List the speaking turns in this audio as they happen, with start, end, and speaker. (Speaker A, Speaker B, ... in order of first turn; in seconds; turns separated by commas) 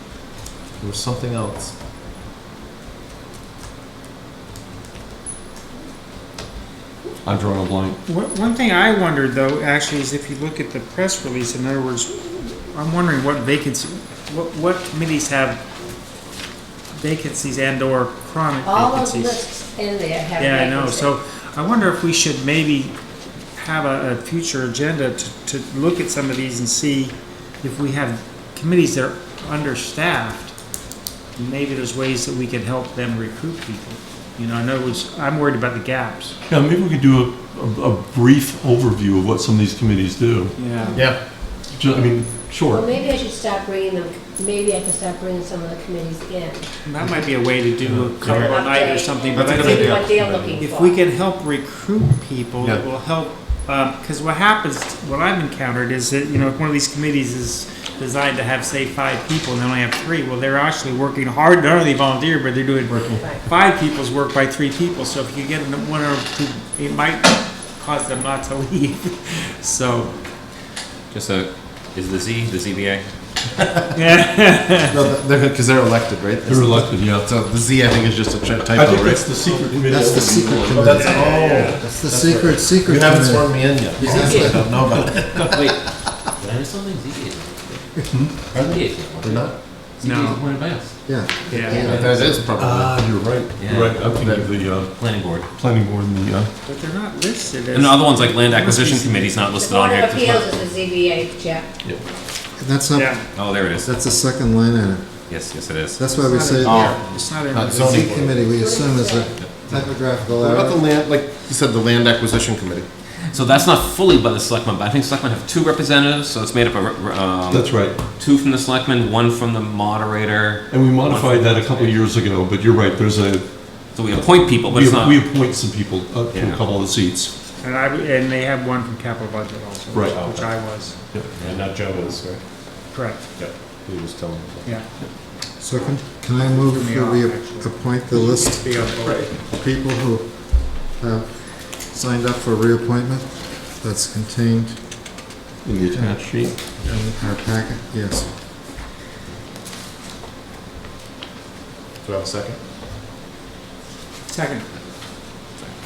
Speaker A: 0.8-1.7, Speaker B: 7.2-8.0, Speaker C: 8.0-15.6, Speaker C: 16.9-19.4, Speaker D: 18.6-21.1, Speaker C: 20.4-22.9, Speaker C: 23.6-30.5, Speaker C: 31.4-36.4, Speaker B: 36.5-40.6, Speaker C: 40.5-41.0, Speaker D: 40.7-41.0, Speaker B: 41.7-42.9, Speaker D: 42.7-46.7, Speaker C: 46.8-70.2, Speaker A: 48.2-48.6, Speaker D: 48.3-50.9, Speaker A: 49.3-50.6, Speaker A: 62.9-63.2, Speaker E: 71.1-73.0, Speaker C: 73.9-75.0, Speaker A: 74.9-79.3, Speaker B: 76.5-77.3, Speaker B: 78.7-81.2, Speaker F: 79.8-85.2, Speaker A: 80.7-85.8, Speaker E: 81.2-81.8, Speaker E: 84.0-84.6, Speaker B: 84.7-85.2, Speaker E: 86.4-87.5, Speaker B: 88.1-88.4, Speaker A: 88.5-89.6, Speaker E: 88.5-91.0, Speaker C: 90.0-90.4, Speaker F: 91.0-92.1, Speaker C: 91.5-91.8, Speaker A: 91.6-93.1, Speaker E: 91.9-92.5, Speaker B: 92.5-96.5, Speaker E: 93.5-94.1, Speaker A: 93.9-94.6, Speaker E: 94.9-95.5, Speaker C: 96.6-99.5, Speaker E: 97.7-100.5, Speaker D: 99.6-101.7, Speaker F: 102.5-110.8, Speaker C: 102.9-103.2, Speaker E: 103.3-103.9, Speaker E: 105.3-106.0, Speaker C: 106.1-108.1, Speaker A: 106.6-108.5, Speaker E: 106.7-107.0, Speaker D: 108.5-109.3, Speaker A: 110.3-112.9, Speaker E: 113.3-122.0, Speaker B: 117.5-118.0, Speaker B: 120.7-123.8, Speaker E: 123.9-125.4, Speaker B: 124.4-127.3, Speaker E: 126.3-126.6, Speaker C: 127.6-130.9, Speaker B: 129.9-130.2, Speaker A: 130.1-130.5, Speaker A: 131.4-134.7, Speaker C: 132.9-133.2, Speaker F: 135.6-138.9, Speaker C: 136.4-139.3, Speaker F: 139.5-145.2, Speaker B: 145.6-146.6, Speaker F: 145.9-148.3, Speaker A: 152.0-152.6, Speaker C: 154.3-154.7